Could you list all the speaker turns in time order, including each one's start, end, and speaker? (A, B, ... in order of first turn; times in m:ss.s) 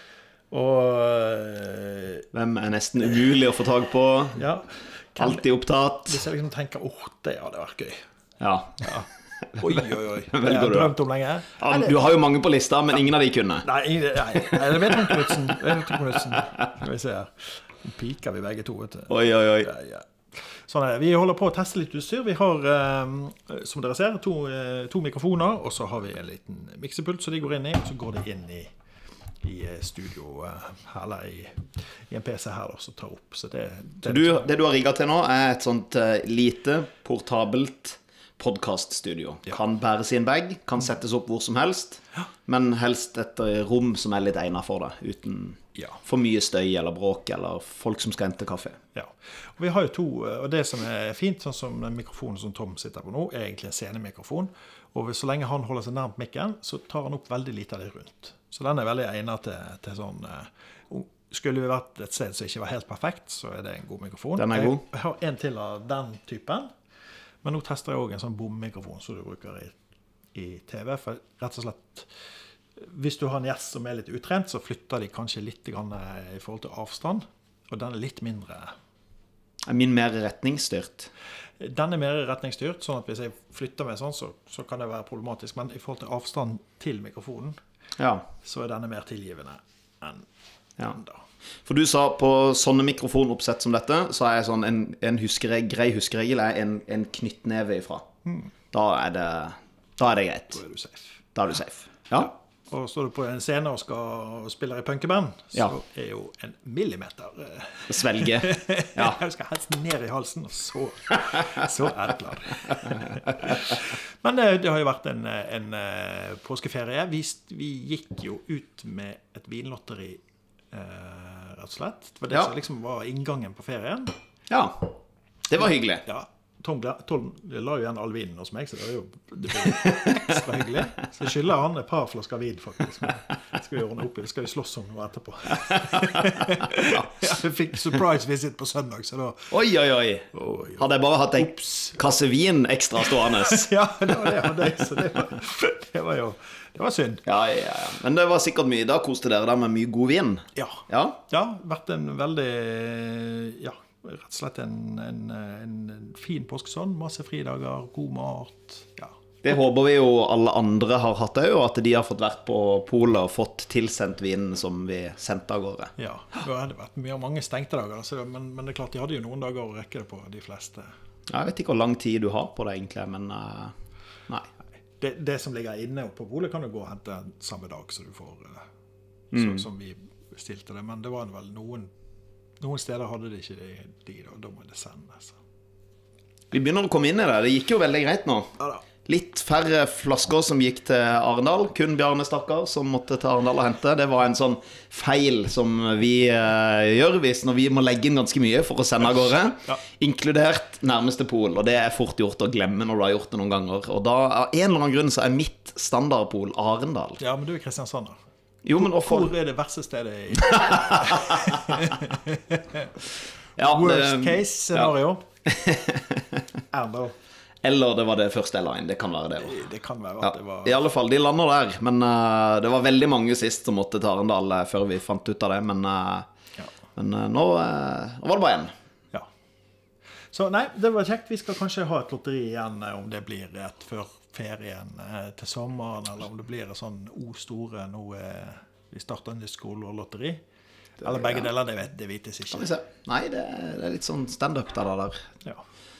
0:00.5-0:02.2 A
0:02.3-0:04.4 B
0:04.4-0:05.4 A
0:05.2-0:06.2 B
0:06.1-0:08.0 A
0:08.4-0:10.9 B
0:08.8-0:12.0 A
0:11.6-0:13.6 B
0:13.6-0:28.7 A
0:19.1-0:19.7 B
0:29.4-0:34.5 A
0:34.0-0:48.8 B
0:48.9-1:06.7 A
1:04.4-1:04.8 B
1:07.4-1:09.8 A
1:10.3-1:12.1 A
1:12.8-1:18.7 A
1:19.7-1:21.1 B
1:21.6-1:27.6 A
1:28.0-1:28.2 B
1:28.4-1:30.3 A
1:30.9-1:31.2 A
1:31.6-1:38.0 B
1:38.7-1:40.6 B
1:40.5-1:41.2 A
1:41.3-1:42.3 B
1:42.2-2:00.2 A
1:47.9-1:49.2 B
2:00.7-2:04.1 A
2:04.5-2:06.0 B
2:06.0-2:19.5 A
2:09.6-2:10.4 B
2:16.2-2:17.2 B
2:19.5-2:24.7 B
2:20.3-2:20.8 A
2:21.4-2:22.0 A
2:23.0-2:27.2 A
2:27.2-2:31.2 B
2:30.6-2:39.1 A
2:39.4-2:45.9 B
2:46.0-2:50.9 A
2:51.3-2:53.7 B
2:55.0-2:58.6 A
2:59.3-2:59.6 B
2:59.3-3:01.9 A
3:02.6-3:05.4 A
3:06.5-3:08.5 B
3:09.0-3:27.2 B
3:27.2-3:28.2 A
3:28.6-3:29.3 B
3:28.8-3:35.2 A
3:30.6-3:31.5 B
3:33.6-3:34.9 B
3:35.4-3:36.4 B
3:36.7-3:37.1 A
3:37.6-3:39.6 B
3:39.4-3:40.8 A
3:40.2-3:46.2 B
3:46.9-3:48.7 B
3:50.3-4:00.4 A
4:01.0-4:01.5 B
4:01.0-4:02.7 A
4:02.5-4:05.2 B